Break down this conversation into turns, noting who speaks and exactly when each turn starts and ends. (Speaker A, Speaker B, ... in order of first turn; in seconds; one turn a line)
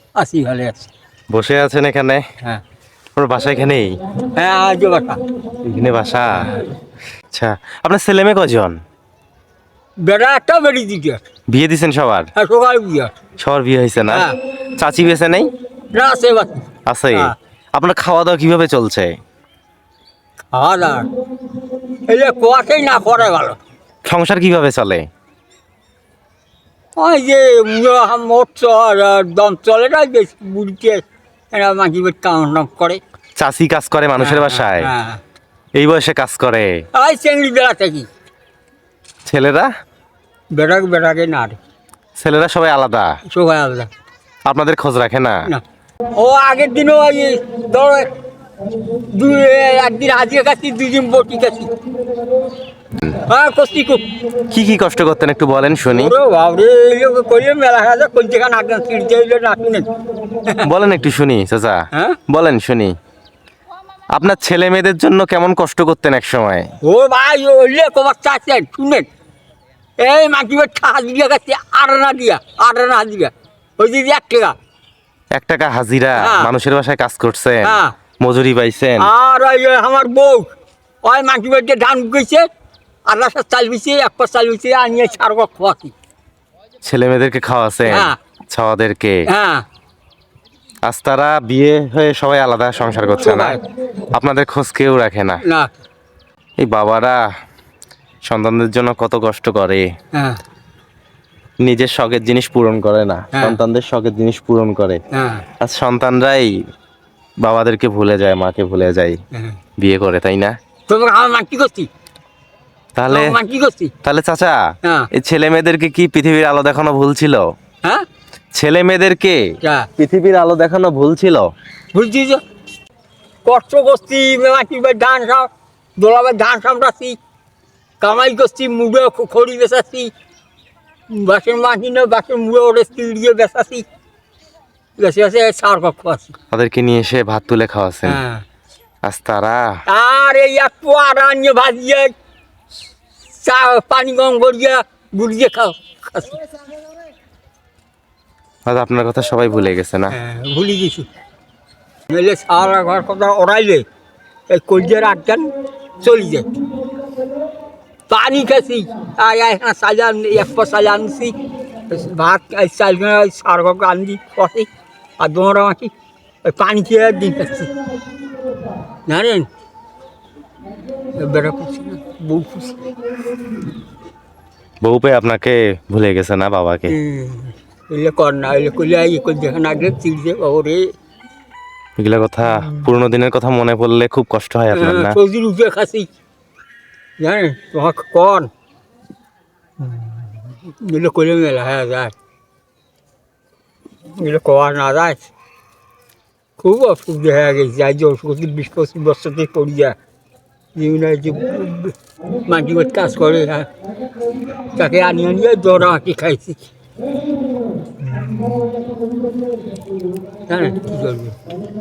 Speaker A: 0.2-0.9
Speaker B: 1.3-2.2
Speaker B: 3.2-3.9
Speaker A: 4.2-5.2
Speaker B: 5.6-6.6
Speaker B: 7.3-8.8
Speaker A: 10.0-11.2
Speaker B: 11.5-12.3
Speaker A: 12.4-13.1
Speaker B: 13.4-15.5
Speaker A: 14.1-14.4
Speaker A: 15.9-17.3
Speaker B: 16.9-19.1
Speaker A: 20.5-21.1
Speaker A: 22.1-23.6
Speaker B: 24.1-25.1
Speaker A: 27.0-33.0
Speaker B: 33.4-34.9
Speaker A: 34.2-35.2
Speaker B: 35.8-36.7
Speaker A: 36.9-38.1
Speaker B: 39.3-39.7
Speaker A: 40.5-41.6
Speaker B: 42.2-43.1
Speaker A: 43.3-43.9
Speaker B: 44.5-45.4
Speaker A: 46.1-48.1
Speaker A: 48.9-51.7
Speaker A: 53.1-54.1
Speaker B: 54.5-56.1
Speaker A: 55.9-60.7
Speaker B: 60.6-62.9
Speaker A: 61.9-62.2
Speaker B: 64.1-66.7
Speaker A: 66.8-69.1
Speaker A: 70.0-74.6
Speaker B: 75.3-79.1
Speaker A: 76.2-76.5
Speaker A: 77.6-78.0
Speaker A: 79.0-80.5
Speaker A: 81.0-82.5
Speaker A: 83.1-85.9
Speaker B: 86.8-89.2
Speaker A: 87.9-88.2
Speaker A: 89.3-89.7
Speaker B: 90.9-93.6
Speaker A: 93.2-93.6
Speaker B: 94.1-95.4
Speaker A: 95.5-95.8
Speaker B: 96.6-97.2
Speaker B: 98.3-99.9
Speaker A: 100.1-100.4
Speaker B: 101.6-105.0
Speaker A: 103.3-103.6
Speaker A: 105.1-105.5
Speaker B: 105.6-106.5
Speaker B: 107.4-109.2
Speaker A: 109.3-109.6
Speaker B: 109.8-110.5
Speaker A: 110.9-111.9
Speaker B: 113.0-113.4
Speaker A: 113.1-113.9
Speaker B: 114.0-114.6
Speaker A: 114.8-115.1
Speaker B: 115.1-117.5
Speaker B: 118.5-119.4
Speaker A: 119.6-119.9
Speaker B: 120.0-121.5
Speaker A: 121.9-122.4
Speaker A: 123.5-127.2
Speaker A: 128.0-130.1
Speaker A: 131.1-133.8
Speaker A: 135.0-136.3
Speaker B: 136.5-138.2
Speaker A: 138.0-138.4
Speaker B: 139.1-139.7
Speaker A: 139.9-142.1
Speaker A: 143.4-146.4
Speaker B: 148.7-150.1
Speaker A: 150.1-151.1
Speaker A: 152.1-153.8
Speaker A: 154.5-155.5
Speaker A: 156.0-156.5
Speaker A: 158.1-161.3
Speaker A: 161.9-164.7
Speaker A: 165.2-165.9
Speaker A: 166.4-167.7
Speaker A: 169.1-169.5
Speaker A: 171.2-172.9
Speaker B: 174.8-176.9
Speaker A: 176.9-180.9
Speaker B: 182.0-185.2
Speaker A: 182.5-182.9
Speaker A: 184.7-186.1
Speaker A: 187.2-188.5
Speaker A: 189.8-192.1
Speaker A: 194.2-195.3
Speaker A: 196.6-200.0
Speaker A: 200.8-203.7
Speaker A: 204.7-206.7
Speaker A: 208.0-208.7
Speaker A: 210.5-211.4